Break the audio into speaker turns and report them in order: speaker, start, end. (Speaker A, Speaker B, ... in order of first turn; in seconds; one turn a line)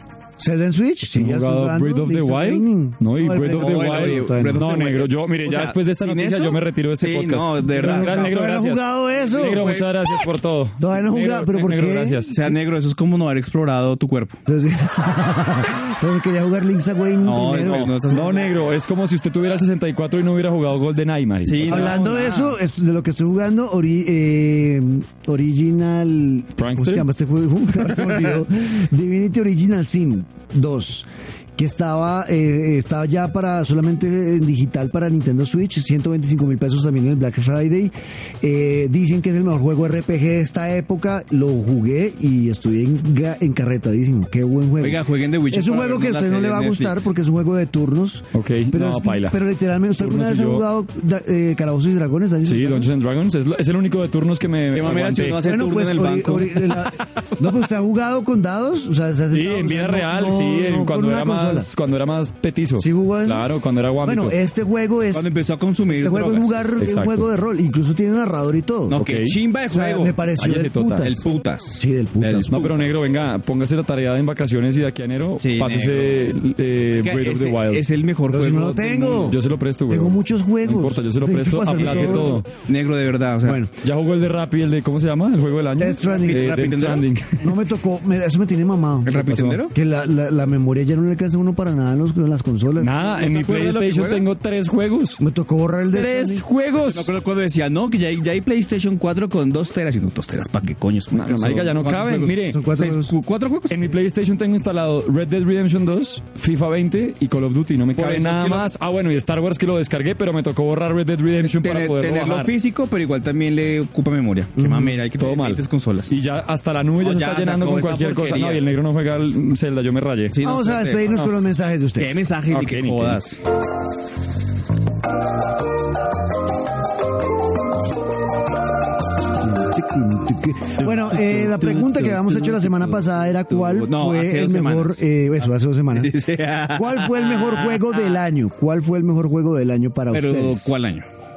Speaker A: 0.4-4.7
Speaker B: 1.1-12.4
Speaker C: 3.4-8.3
Speaker A: 7.7-9.7
Speaker C: 9.1-10.3
Speaker A: 10.8-12.2
Speaker C: 12.3-14.4
Speaker A: 14.5-18.0
Speaker C: 17.2-18.6
Speaker B: 18.0-22.0
Speaker C: 21.4-22.6
Speaker A: 21.6-52.9
Speaker B: 26.6-27.1
Speaker C: 44.8-47.1
Speaker B: 48.3-49.4
Speaker B: 50.0-50.7
Speaker B: 52.4-55.5
Speaker C: 54.7-57.1
Speaker A: 55.4-61.7
Speaker B: 59.3-64.4
Speaker A: 62.8-63.5
Speaker A: 64.0-65.3
Speaker C: 65.1-66.7
Speaker A: 66.0-69.0
Speaker B: 66.8-67.3
Speaker B: 68.9-69.4
Speaker C: 68.9-70.3
Speaker A: 69.7-71.2
Speaker B: 70.4-71.2
Speaker C: 71.0-72.9
Speaker A: 71.8-72.7
Speaker B: 72.5-77.8
Speaker C: 75.4-76.2
Speaker C: 77.0-79.4
Speaker A: 78.3-82.4
Speaker B: 79.3-82.5
Speaker C: 81.7-83.6
Speaker A: 83.4-83.7
Speaker B: 83.8-87.5
Speaker A: 85.8-86.6
Speaker C: 86.0-87.1
Speaker A: 87.4-92.9
Speaker C: 89.1-89.8
Speaker B: 89.1-89.6
Speaker B: 92.8-95.2
Speaker C: 92.9-94.3
Speaker A: 95.2-96.5
Speaker B: 95.9-97.1
Speaker C: 96.8-103.9
Speaker B: 101.1-102.6
Speaker A: 102.5-103.2
Speaker B: 103.7-112.5
Speaker C: 108.0-108.7
Speaker C: 111.4-116.1
Speaker A: 114.6-115.0
Speaker B: 115.2-120.4
Speaker C: 117.0-118.7
Speaker C: 120.3-121.2
Speaker A: 120.4-122.3
Speaker C: 122.0-123.4
Speaker B: 122.5-123.2
Speaker A: 129.4-136.2
Speaker C: 130.8-135.0
Speaker C: 135.9-138.0
Speaker A: 136.7-140.7
Speaker C: 140.1-141.1